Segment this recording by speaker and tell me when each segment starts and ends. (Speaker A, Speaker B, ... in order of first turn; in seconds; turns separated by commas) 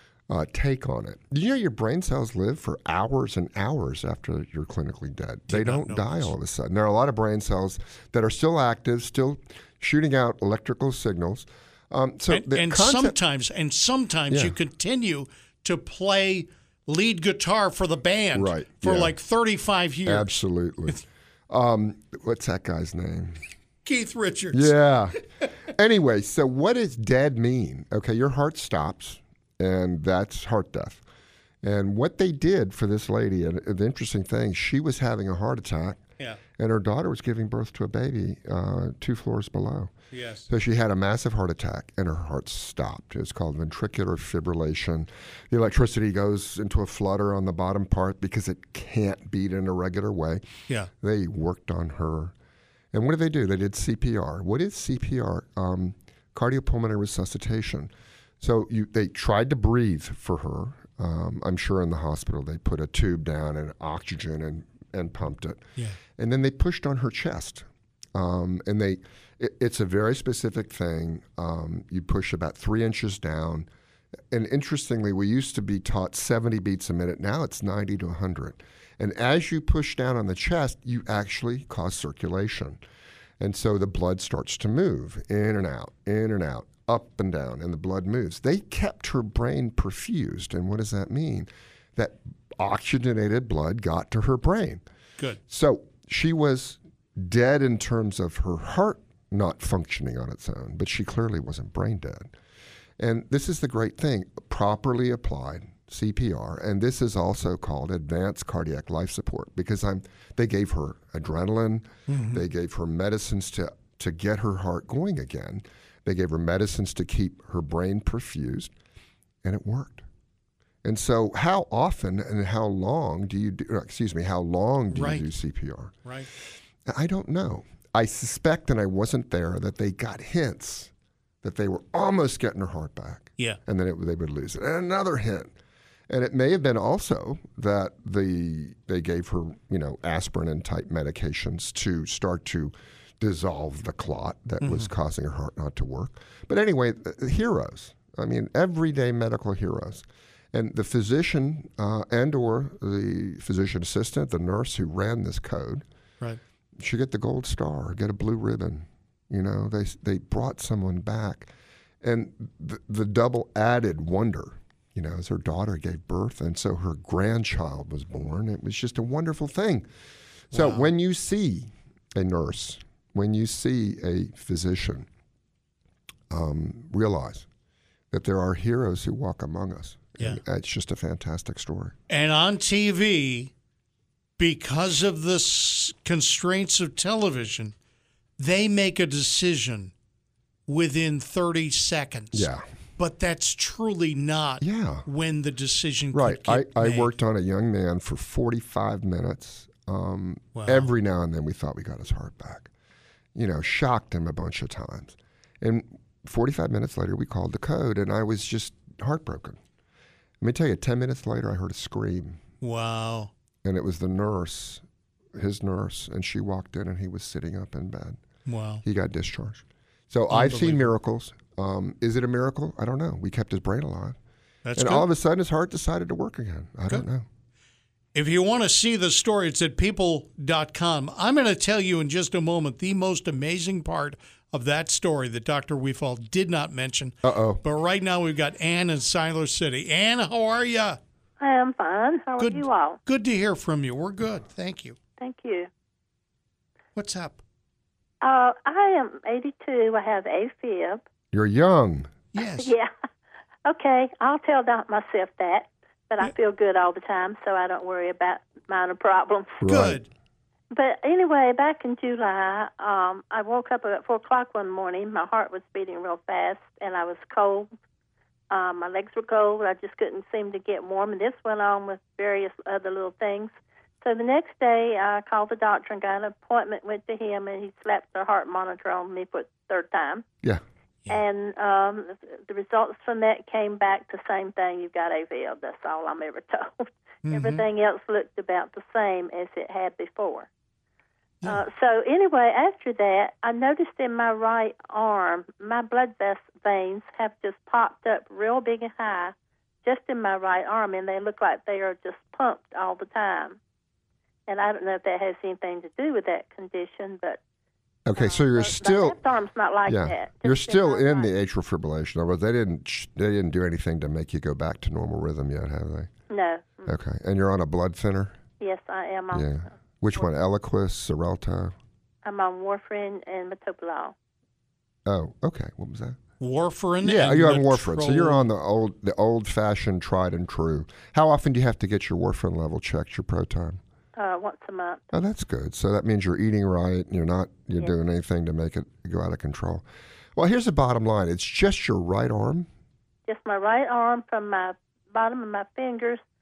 Speaker A: 0.3-13.2, Speaker B: 5.5-6.3, Speaker B: 12.3-20.3, Speaker A: 14.3-14.6, Speaker A: 18.3-19.1, Speaker A: 20.0-23.4, Speaker B: 23.8-24.8, Speaker A: 24.5-31.0, Speaker A: 31.6-36.0, Speaker A: 36.6-39.9, Speaker B: 40.1-40.5, Speaker A: 40.5-50.4, Speaker A: 50.9-52.3, Speaker A: 52.9-73.7, Speaker A: 74.3-82.8, Speaker A: 83.4-94.8, Speaker A: 95.5-102.3, Speaker A: 103.0-118.7, Speaker B: 112.1-112.4, Speaker A: 119.4-120.0, Speaker A: 120.8-126.0, Speaker B: 124.9-125.3, Speaker A: 126.8-130.9, Speaker A: 131.4-135.5, Speaker A: 136.1-155.8, Speaker B: 144.6-144.9, Speaker A: 156.8-161.5, Speaker A: 162.0-169.9, Speaker A: 170.5-175.1, Speaker B: 170.5-170.9, Speaker A: 176.3-177.5, Speaker A: 178.1-181.9, Speaker B: 182.1-183.5, Speaker B: 184.4-187.7, Speaker B: 188.4-189.9, Speaker B: 190.7-197.1, Speaker A: 192.3-192.6, Speaker A: 194.6-195.1, Speaker A: 196.1-202.7, Speaker B: 200.5-200.9, Speaker A: 203.3-209.6, Speaker A: 210.4-212.4, Speaker B: 212.6-213.3, Speaker A: 213.6-214.8, Speaker A: 215.3-218.2, Speaker B: 218.4-218.8, Speaker A: 218.8-224.2, Speaker B: 220.3-220.9, Speaker B: 224.6-225.1, Speaker A: 224.7-227.3, Speaker B: 228.1-241.0, Speaker A: 237.2-237.6, Speaker C: 241.4-243.0, Speaker B: 242.4-245.0, Speaker C: 245.2-245.7, Speaker B: 246.9-247.4, Speaker C: 248.2-251.1, Speaker A: 251.3-252.1, Speaker B: 252.3-252.7, Speaker C: 252.6-252.9, Speaker C: 253.6-259.6, Speaker A: 259.6-260.0, Speaker B: 259.6-260.1, Speaker C: 260.7-267.7, Speaker C: 268.5-280.2, Speaker C: 281.1-290.5, Speaker B: 287.2-287.6, Speaker C: 291.4-303.6, Speaker C: 304.5-307.4, Speaker A: 308.0-309.2, Speaker C: 308.1-311.3, Speaker A: 309.9-316.1, Speaker C: 316.3-316.9, Speaker A: 316.9-318.4, Speaker C: 318.6-320.3, Speaker A: 319.3-321.7, Speaker C: 322.2-324.1, Speaker A: 325.1-326.2, Speaker B: 326.4-328.5, Speaker A: 327.0-333.8, Speaker C: 334.1-335.0, Speaker A: 335.1-339.8, Speaker A: 340.4-342.7, Speaker C: 343.3-346.2